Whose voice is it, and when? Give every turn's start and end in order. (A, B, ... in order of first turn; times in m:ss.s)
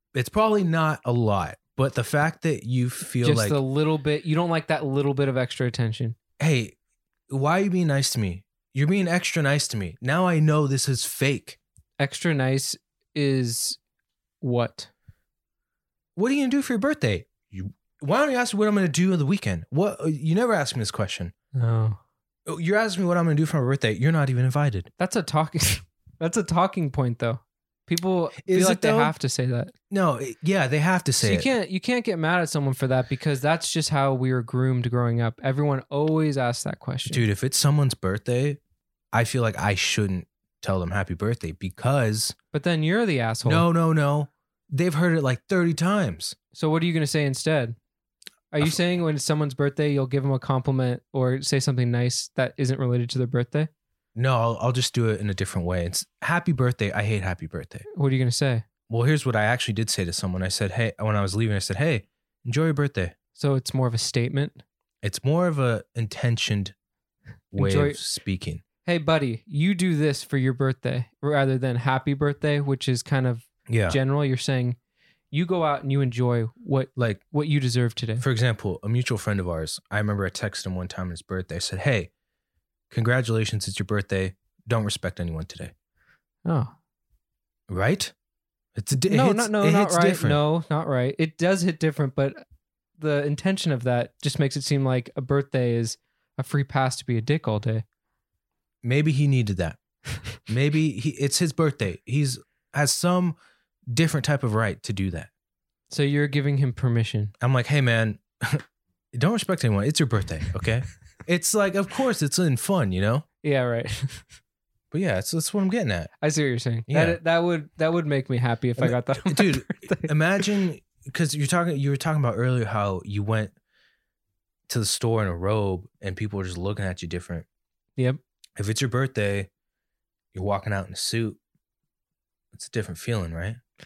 0:00.1-0:03.6 A
0:03.2-0:06.2 B
0:06.4-0:06.8 A
0:07.3-0:11.6 A
0:12.0-0:13.8 B
0:14.4-0:14.9 B
0:16.2-0:21.3 A
0:21.5-0:22.0 B
0:22.4-0:24.9 A
0:25.0-0:29.7 B
0:28.4-0:29.1 A
0:29.9-0:31.5 A
0:31.2-0:37.2 B
0:37.1-0:38.6 A
0:39.1-0:42.4 A
0:42.5-0:43.6 B
0:43.4-0:46.4 A
0:46.5-0:47.8 B
0:48.5-0:53.7 B
0:54.1-0:57.8 A
0:57.9-0:58.6 B
0:58.9-1:03.2 A
1:03.4-1:04.6 B
1:05.0-1:06.7 A
1:07.5-1:08.6 A
1:07.6-1:08.0 B
1:08.8-1:14.8 B
1:13.7-1:14.0 A
1:15.3-1:18.2 B
1:17.0-1:17.2 A
1:18.2-1:22.1 A
1:22.9-1:25.7 A
1:26.4-1:26.7 B
1:27.7-1:28.1 A
1:28.7-1:30.4 A
1:29.0-1:32.4 B
1:33.0-1:37.8 B
1:38.8-1:39.8 A
1:40.5-1:43.3 A
1:43.9-1:45.3 A
1:45.9-1:47.3 B
1:47.4-1:53.2 A
1:53.4-1:54.2 B
1:54.9-1:56.1 A
1:56.2-2:00.4 B
1:56.9-1:57.2 A
1:58.8-2:03.5 A
2:04.7-2:07.4 A
2:08.6-2:09.5 A
2:10.3-2:11.4 A
2:12.5-2:13.6 A